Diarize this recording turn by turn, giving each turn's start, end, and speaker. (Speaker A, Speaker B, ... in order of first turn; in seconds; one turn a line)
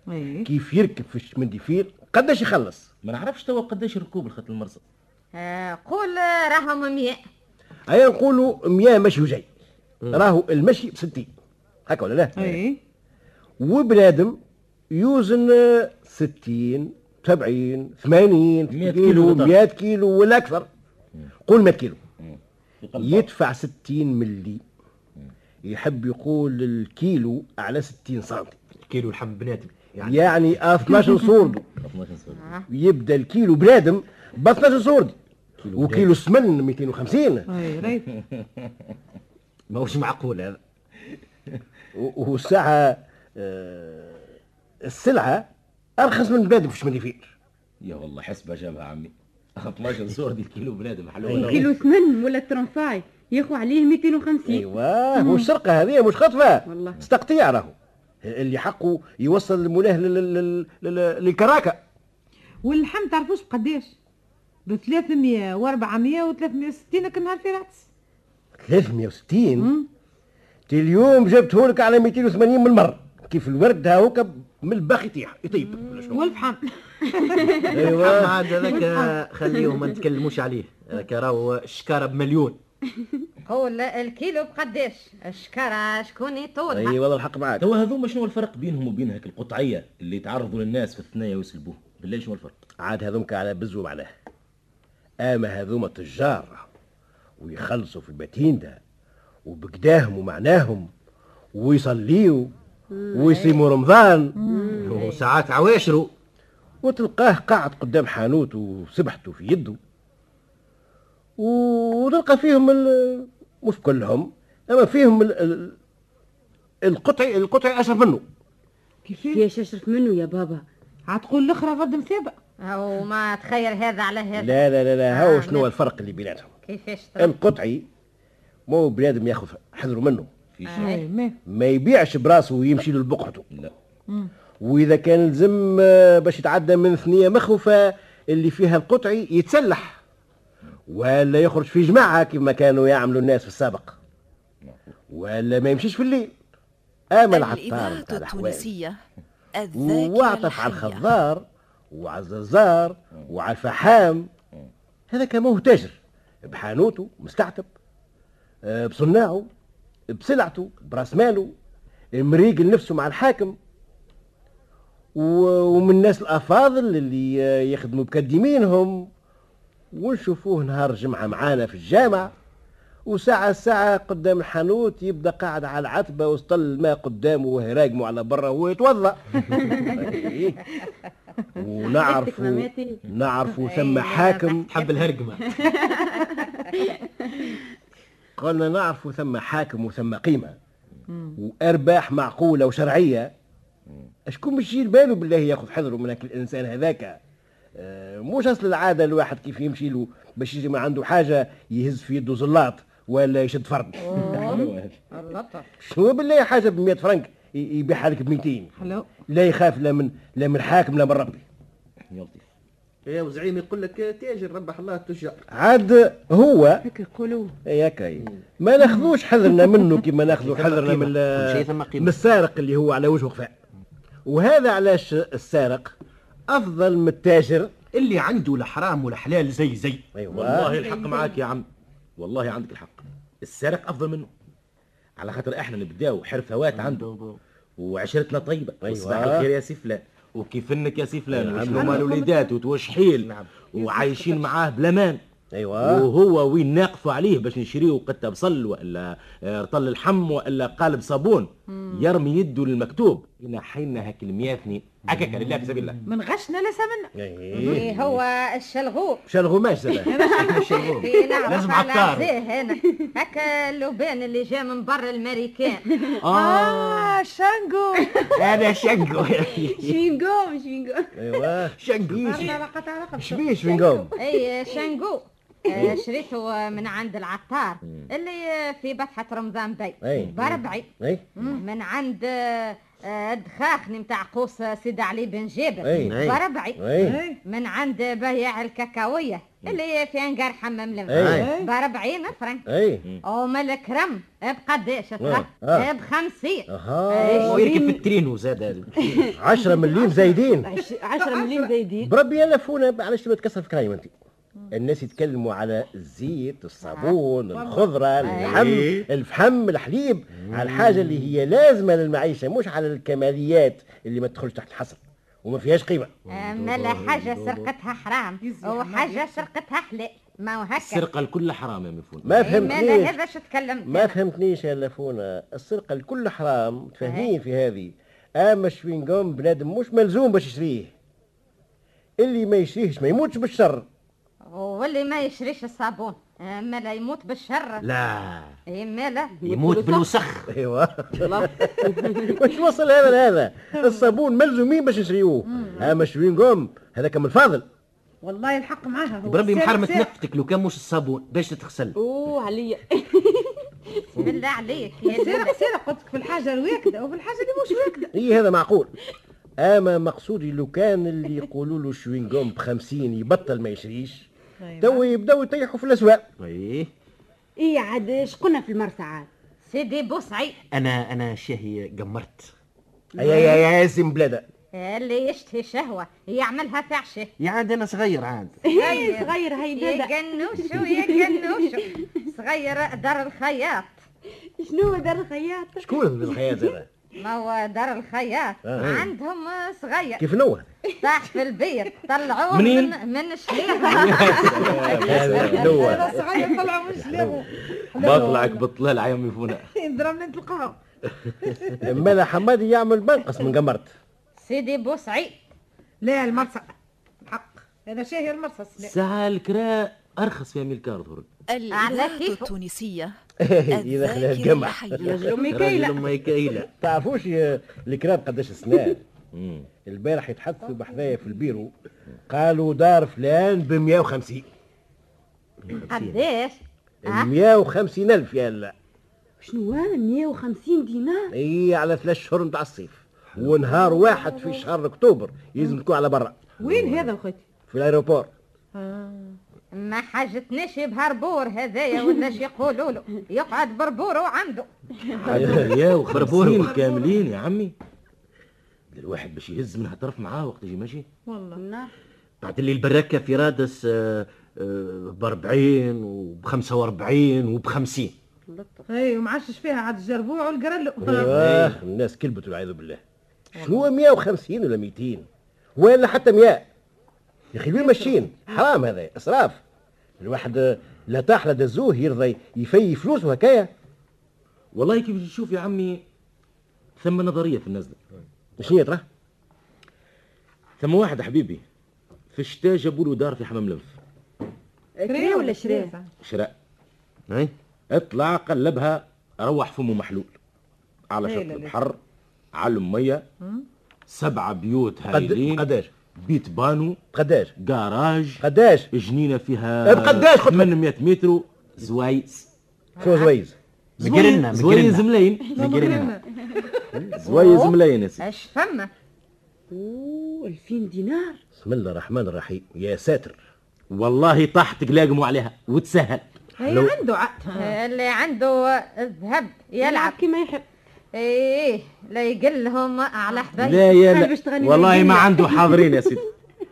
Speaker A: 0.1-0.5
Speaker B: 0.5-2.9
Speaker C: 3.0-4.8
Speaker D: 5.3-7.2
Speaker B: 7.9-9.5
Speaker B: 10.1-11.3
Speaker B: 11.9-12.4
Speaker A: 12.4-12.8
Speaker B: 13.6-14.4
Speaker B: 14.9-20.7
Speaker C: 18.7-19.6
Speaker B: 21.4-22.0
Speaker C: 22.2-23.3
Speaker B: 23.0-24.6
Speaker B: 25.6-28.6
Speaker E: 28.9-30.3
Speaker B: 30.0-31.6
Speaker C: 31.8-32.5
Speaker D: 32.4-32.7
Speaker B: 32.7-35.1
Speaker E: 35.6-36.1
Speaker B: 35.7-37.5
Speaker A: 37.5-38.1
Speaker C: 38.3-38.6
Speaker E: 39.7-40.6
Speaker B: 42.0-44.3
Speaker B: 44.8-45.5
Speaker B: 46.0-47.3
Speaker C: 47.8-51.7
Speaker B: 51.2-51.6
Speaker F: 51.3-54.7
Speaker B: 54.5-61.8
Speaker A: 55.2-55.5
Speaker F: 56.7-57.0
Speaker A: 62.6-63.9
Speaker A: 64.7-67.9
Speaker B: 68.6-69.7
Speaker A: 69.6-69.9
Speaker B: 70.7-76.3
Speaker A: 76.1-77.7
Speaker F: 77.4-77.8
Speaker E: 77.7-82.6
Speaker B: 77.7-78.5
Speaker A: 78.7-79.1
Speaker F: 79.5-79.9
Speaker D: 83.5-87.0
Speaker B: 86.7-87.7
Speaker C: 87.6-92.6
Speaker B: 92.8-94.1
Speaker B: 95.2-96.7
Speaker B: 97.4-98.8
Speaker B: 99.5-100.9
Speaker B: 101.5-102.5
Speaker F: 102.9-103.4
Speaker B: 103.1-104.4
Speaker A: 104.4-104.8
Speaker F: 104.5-105.0
Speaker E: 104.8-106.1
Speaker D: 105.0-105.2
Speaker B: 106.8-109.8
Speaker B: 111.4-115.8
Speaker B: 116.9-118.2
Speaker A: 119.1-119.5
Speaker F: 119.2-120.7
Speaker A: 121.1-122.3
Speaker D: 122.6-124.5
Speaker B: 124.4-126.5
Speaker D: 125.1-125.7
Speaker D: 126.7-127.3
Speaker B: 127.2-127.9
Speaker B: 128.7-130.3
Speaker C: 130.6-130.9
Speaker D: 130.7-131.0
Speaker A: 130.8-131.4
Speaker B: 131.5-133.4
Speaker B: 134.6-140.0
Speaker B: 140.9-144.0
Speaker B: 145.1-146.3
Speaker B: 147.1-148.7
Speaker G: 147.3-149.0
Speaker G: 149.6-151.1
Speaker B: 149.7-154.3
Speaker B: 155.1-157.7
Speaker B: 158.7-159.5
Speaker B: 160.1-161.5
Speaker B: 162.1-163.6
Speaker B: 165.2-169.1
Speaker B: 169.9-172.3
Speaker B: 173.1-180.6
Speaker F: 179.6-180.2
Speaker B: 181.6-184.7
Speaker F: 181.8-183.0
Speaker D: 183.6-185.1
Speaker E: 184.7-185.7
Speaker F: 185.4-187.6
Speaker B: 188.4-190.6
Speaker B: 191.4-193.3
Speaker B: 194.3-197.2
Speaker B: 197.8-204.4
Speaker D: 204.0-205.7
Speaker C: 204.3-205.0
Speaker B: 205.8-208.7
Speaker A: 208.8-209.1
Speaker B: 209.3-211.4
Speaker C: 212.1-212.4
Speaker E: 213.1-215.4
Speaker B: 215.5-216.8
Speaker F: 216.9-217.6
Speaker B: 217.7-223.5
Speaker A: 218.8-219.1
Speaker E: 220.3-222.1
Speaker B: 224.3-225.9
Speaker B: 226.5-227.7
Speaker E: 227.9-230.1
Speaker B: 230.2-230.8
Speaker C: 230.3-231.7
Speaker C: 232.2-234.3
Speaker C: 235.2-237.1
Speaker E: 236.7-237.4
Speaker C: 237.8-245.2
Speaker B: 238.8-239.5
Speaker B: 241.3-242.1
Speaker E: 241.5-241.9
Speaker A: 241.7-242.5
Speaker E: 243.0-243.7
Speaker A: 243.8-244.5
Speaker B: 245.5-246.1
Speaker C: 245.8-256.0
Speaker E: 255.2-255.9
Speaker A: 256.1-257.1
Speaker B: 257.1-257.8
Speaker D: 257.6-259.2
Speaker B: 259.3-260.1
Speaker F: 260.1-261.6
Speaker A: 260.1-260.8
Speaker E: 260.4-262.3
Speaker D: 260.7-266.1
Speaker F: 265.9-266.2
Speaker C: 266.2-267.2
Speaker A: 266.3-268.3
Speaker F: 268.0-271.5
Speaker E: 268.4-270.0
Speaker B: 271.2-271.8
Speaker E: 271.8-272.6
Speaker A: 272.2-273.5
Speaker B: 273.2-274.1
Speaker F: 273.5-274.8
Speaker D: 274.2-280.9
Speaker F: 275.7-276.0
Speaker B: 280.0-280.4
Speaker D: 281.6-286.8
Speaker B: 285.8-286.2
Speaker E: 285.9-286.4
Speaker B: 286.8-287.2
Speaker A: 287.0-287.4
Speaker D: 287.5-292.6
Speaker B: 291.1-291.5
Speaker E: 291.1-291.5
Speaker A: 291.4-291.7
Speaker B: 292.7-293.0
Speaker D: 293.3-297.6
Speaker B: 295.2-295.9
Speaker B: 296.7-297.5
Speaker F: 297.1-298.1
Speaker E: 297.4-299.3
Speaker F: 298.9-299.4
Speaker B: 299.3-300.7
Speaker A: 300.1-301.7
Speaker F: 300.6-302.1
Speaker B: 302.0-304.1
Speaker B: 304.7-316.1
Speaker D: 306.9-307.2
Speaker A: 307.5-307.9
Speaker D: 308.2-308.6
Speaker E: 308.3-309.1
Speaker E: 310.5-311.3
Speaker D: 316.3-321.1
Speaker E: 316.3-317.7
Speaker A: 318.4-319.5
Speaker C: 320.8-322.6
Speaker B: 322.2-323.2
Speaker D: 322.4-324.2
Speaker B: 323.9-330.9
Speaker D: 327.0-327.3
Speaker B: 332.2-333.9
Speaker D: 334.5-337.8
Speaker E: 337.8-338.6
Speaker D: 338.7-339.4
Speaker F: 339.4-340.2
Speaker E: 339.4-340.5
Speaker B: 340.5-347.7
Speaker F: 341.2-342.4
Speaker A: 345.6-345.9
Speaker A: 348.2-350.1
Speaker E: 349.2-352.0
Speaker F: 351.9-354.4
Speaker D: 354.2-355.6
Speaker F: 355.1-355.7
Speaker A: 355.2-358.0
Speaker F: 357.4-358.1
Speaker B: 358.1-358.9
Speaker B: 359.6-364.3
Speaker A: 364.6-365.0
Speaker B: 364.8-366.3
Speaker E: 366.4-366.9
Speaker F: 367.6-369.3
Speaker D: 369.7-370.6
Speaker E: 370.7-372.5
Speaker F: 373.1-373.6
Speaker B: 373.2-374.4
Speaker D: 374.8-377.3
Speaker E: 377.4-378.6
Speaker F: 378.6-381.8
Speaker D: 378.7-383.9
Speaker F: 384.6-386.8
Speaker B: 385.8-386.9
Speaker D: 387.2-390.2
Speaker B: 388.7-389.0
Speaker E: 388.8-389.1
Speaker B: 390.2-390.7
Speaker D: 391.0-396.2
Speaker C: 392.5-392.9
Speaker F: 393.7-395.0
Speaker C: 393.9-395.8
Speaker B: 394.5-396.2
Speaker A: 395.4-398.6
Speaker B: 397.0-397.4
Speaker C: 398.0-399.7
Speaker A: 399.7-401.9
Speaker B: 401.8-403.9
Speaker D: 404.4-405.4
Speaker A: 406.0-406.7
Speaker A: 407.3-408.9
Speaker C: 408.8-411.3
Speaker G: 411.5-415.1
Speaker D: 411.7-412.5
Speaker B: 413.4-415.2
Speaker E: 415.0-416.7
Speaker F: 415.0-416.1
Speaker B: 416.6-419.0
Speaker C: 419.3-419.7
Speaker B: 419.9-421.7
Speaker B: 422.3-424.5
Speaker E: 425.7-426.2
Speaker D: 425.9-427.3
Speaker B: 427.1-428.7
Speaker F: 429.4-431.3
Speaker B: 431.3-436.4
Speaker A: 433.8-434.5
Speaker A: 436.6-437.4
Speaker E: 436.8-437.0
Speaker B: 437.7-438.3
Speaker A: 438.8-439.4
Speaker D: 439.8-444.7
Speaker C: 445.2-447.7
Speaker E: 445.2-446.8
Speaker B: 445.3-445.7
Speaker A: 446.8-447.1
Speaker C: 448.9-451.1
Speaker A: 451.3-451.6
Speaker F: 451.6-451.9
Speaker E: 452.4-458.1
Speaker F: 458.5-458.9
Speaker A: 458.9-461.3
Speaker B: 461.0-463.0
Speaker E: 461.0-461.8
Speaker A: 463.6-463.9
Speaker B: 463.6-465.2
Speaker B: 465.8-466.7
Speaker B: 467.5-469.6
Speaker A: 467.8-468.2
Speaker B: 470.2-473.7
Speaker C: 474.7-476.0
Speaker C: 477.0-478.0
Speaker B: 478.6-479.0
Speaker C: 480.8-481.6
Speaker C: 482.3-484.0
Speaker F: 485.0-485.9
Speaker A: 485.1-486.1
Speaker C: 486.2-486.5
Speaker C: 487.9-490.4
Speaker C: 491.1-492.0
Speaker A: 491.2-491.8
Speaker C: 492.6-493.2
Speaker C: 494.1-497.0
Speaker B: 495.1-495.9
Speaker B: 497.1-497.5
Speaker C: 497.6-502.5
Speaker B: 498.4-498.9
Speaker B: 499.9-500.7
Speaker D: 503.0-503.3
Speaker B: 503.0-503.6
Speaker E: 504.0-506.1
Speaker C: 504.0-506.1
Speaker A: 504.1-504.5
Speaker F: 505.4-506.6
Speaker A: 505.6-506.9
Speaker C: 507.1-508.2
Speaker D: 507.3-508.9
Speaker F: 509.7-511.4
Speaker B: 511.6-513.4
Speaker C: 513.9-516.2
Speaker A: 516.6-517.8
Speaker D: 517.6-520.2
Speaker F: 519.8-520.6
Speaker D: 521.2-523.9
Speaker F: 523.6-526.2
Speaker C: 523.6-526.3